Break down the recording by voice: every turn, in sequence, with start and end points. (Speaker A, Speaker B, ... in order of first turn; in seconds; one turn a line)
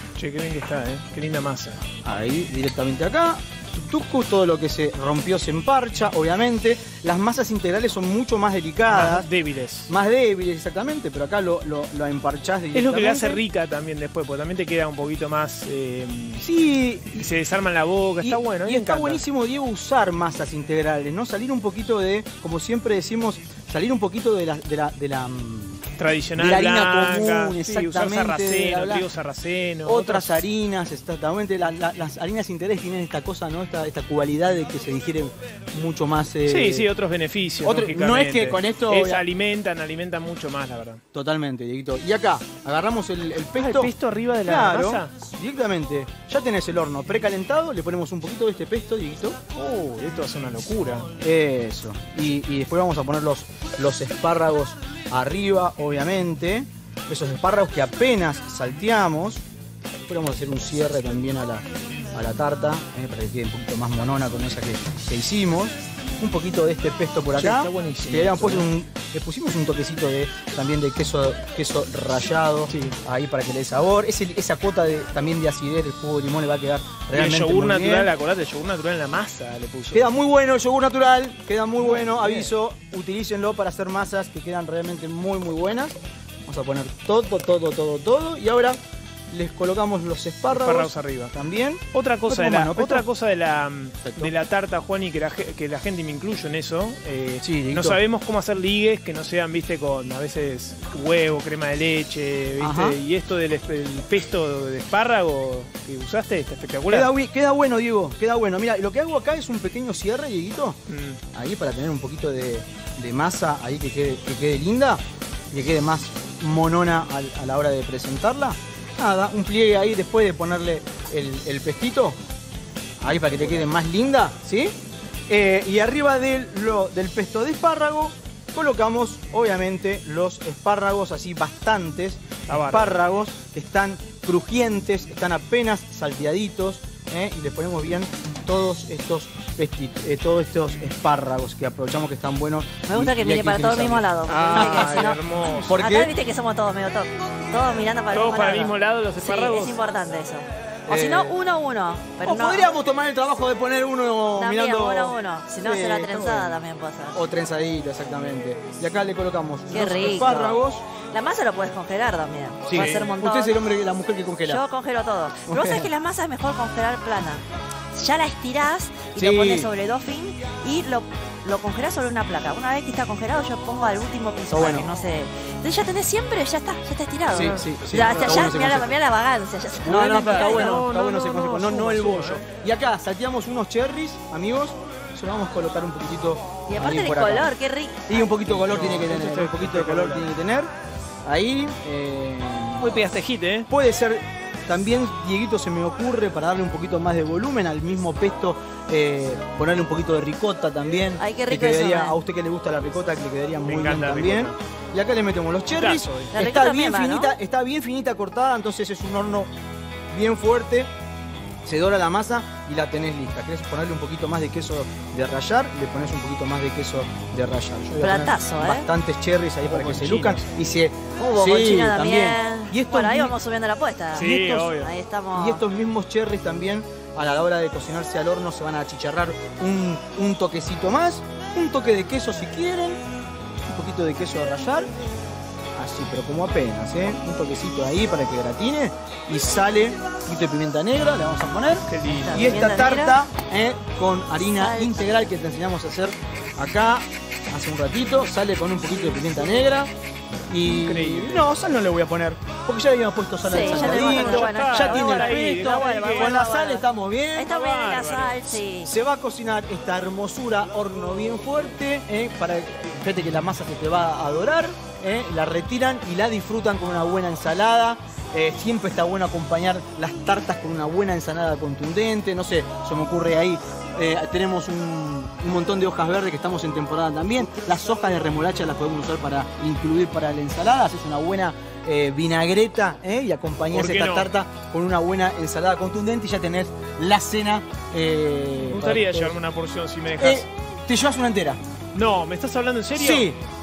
Speaker A: 0.2-1.8
Speaker B: 2.0-9.3
Speaker A: 8.9-9.9
Speaker B: 9.9-13.4
Speaker A: 12.7-16.5
Speaker B: 16.4-17.3
Speaker A: 17.1-19.2
Speaker B: 18.2-25.8
Speaker A: 26.0-30.4
Speaker B: 26.4-29.1
Speaker B: 29.9-36.9
Speaker A: 36.5-41.0
Speaker B: 37.6-39.2
Speaker B: 41.1-43.9
Speaker A: 43.6-45.1
Speaker B: 44.4-49.4
Speaker A: 49.5-51.1
Speaker B: 51.2-59.4
Speaker B: 60.1-78.1
Speaker A: 67.3-68.7
Speaker A: 72.7-73.0
Speaker A: 77.1-80.0
Speaker B: 79.9-86.0
Speaker A: 81.8-82.5
Speaker B: 86.5-88.8
Speaker B: 89.3-93.0
Speaker A: 90.5-91.3
Speaker A: 91.9-107.1
Speaker B: 94.0-94.3
Speaker B: 97.4-98.0
Speaker B: 102.6-103.0
Speaker B: 106.9-110.8
Speaker A: 110.9-111.2
Speaker B: 111.3-122.2
Speaker B: 123.0-124.8
Speaker A: 123.3-123.7
Speaker B: 125.3-146.1
Speaker A: 132.5-133.0
Speaker C: 142.9-152.7
Speaker A: 144.3-145.7
Speaker A: 148.1-149.8
Speaker B: 150.9-151.4
Speaker B: 152.2-156.6
Speaker C: 154.4-157.2
Speaker B: 157.1-160.8
Speaker C: 159.7-163.5
Speaker B: 162.7-164.6
Speaker A: 162.7-163.1
Speaker C: 164.5-180.8
Speaker B: 165.5-165.9
Speaker B: 169.2-169.7
Speaker B: 174.5-174.9
Speaker B: 177.3-179.0
Speaker A: 177.4-178.5
Speaker B: 179.8-187.5
Speaker A: 179.9-182.4
Speaker C: 186.7-188.4
Speaker B: 188.1-190.7
Speaker A: 188.4-190.3
Speaker B: 191.2-192.9
Speaker A: 192.8-193.7
Speaker B: 193.7-209.5
Speaker C: 201.2-202.2
Speaker A: 203.7-204.5
Speaker A: 205.7-206.3
Speaker C: 206.3-207.3
Speaker B: 210.1-210.9
Speaker B: 211.7-223.3
Speaker C: 218.0-218.9
Speaker A: 219.6-220.4
Speaker C: 221.2-225.6
Speaker A: 224.2-224.9
Speaker B: 224.2-224.8
Speaker B: 225.3-233.0
Speaker B: 233.7-234.9
Speaker B: 235.8-249.9
Speaker A: 241.9-242.6
Speaker C: 242.1-243.2
Speaker C: 244.5-245.0
Speaker B: 250.5-257.5
Speaker A: 250.6-251.5
Speaker C: 253.4-256.9
Speaker A: 253.6-256.4
Speaker C: 257.4-258.9
Speaker A: 257.4-258.6
Speaker B: 258.8-289.4
Speaker A: 283.7-284.3
Speaker A: 288.7-290.5
Speaker B: 290.2-291.6
Speaker A: 291.9-293.3
Speaker B: 292.9-293.4